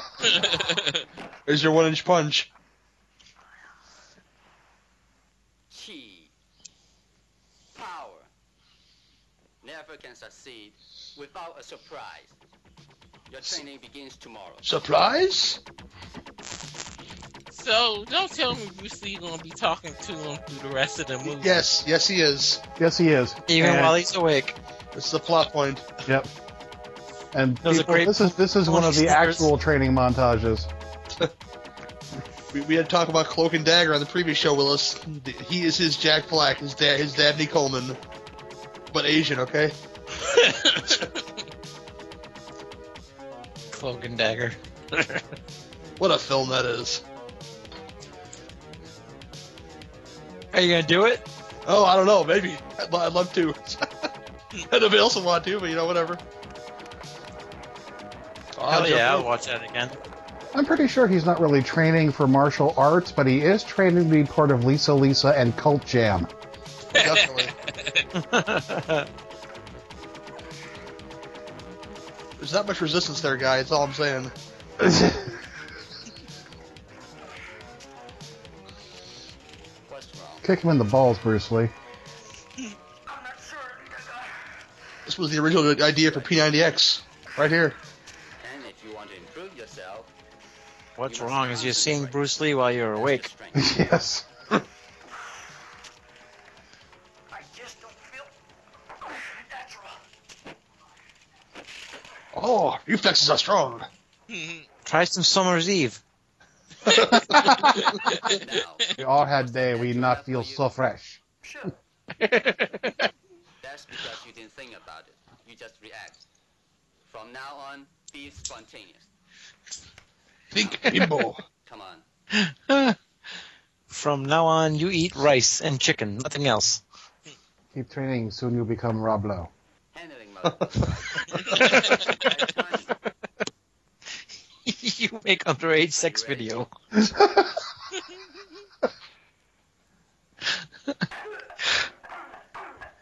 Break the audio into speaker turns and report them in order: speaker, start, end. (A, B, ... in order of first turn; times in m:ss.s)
0:00.2-0:01.0 A
0:01.5-0:02.5 B
0:05.7-0:06.3 C
0:07.7-0:08.3 C
0:09.6-0:12.4 C
0:13.3-0:14.7 C
0:14.6-0:15.6 B
0:17.5-0:21.6 A
0:21.2-0:22.6 B
0:22.8-0:24.0 D
0:23.5-0:24.6 E
0:24.9-0:25.8 B
0:27.3-0:30.7 D
0:27.6-0:29.5 E
0:32.5-0:38.0 B
0:38.9-0:39.8 B
0:40.2-0:41.2 A
0:43.7-0:45.2 E
0:46.0-0:47.0 B
0:50.5-0:51.2 E
0:51.6-0:54.1 B
0:54.7-0:56.2 B
0:58.6-0:59.3 B
0:58.7-1:00.0 E
1:00.5-1:06.3 D
1:06.9-1:07.5 B
1:06.9-1:08.0 A
1:08.1-1:09.1 E
1:12.4-1:14.3 B
1:14.8-1:15.4 D
1:19.8-1:20.4 C
1:20.4-1:21.7 D
1:23.1-1:24.3 F
1:25.0-1:27.8 B
1:28.4-1:30.1 C
1:31.0-1:33.3 E
1:31.0-1:33.8 C
1:33.5-1:34.2 D
1:37.3-1:38.3 F
1:39.1-1:40.0 F
1:42.3-1:43.9 B
1:44.3-1:44.6 A
1:44.8-1:46.0 E
1:46.8-1:47.4 B
1:47.3-1:47.9 D
1:47.5-1:48.3 A
1:48.2-1:48.9 C
1:49.0-1:51.2 D
1:49.5-1:50.7 C
1:51.4-1:51.7 F
1:52.2-1:52.9 A
1:53.6-1:56.2 C
1:57.1-1:59.1 C
2:00.5-2:01.4 B
2:01.6-2:02.0 C
2:02.3-2:03.0 E
2:03.9-2:06.8 E
2:07.7-2:09.5 D
2:09.9-2:12.9 C
2:10.5-2:11.4 B
2:11.3-2:12.2 A
2:11.5-2:12.0 E
2:14.6-2:16.7 E
2:15.9-2:16.7 C
2:17.0-2:17.5 D
2:20.6-2:21.0 E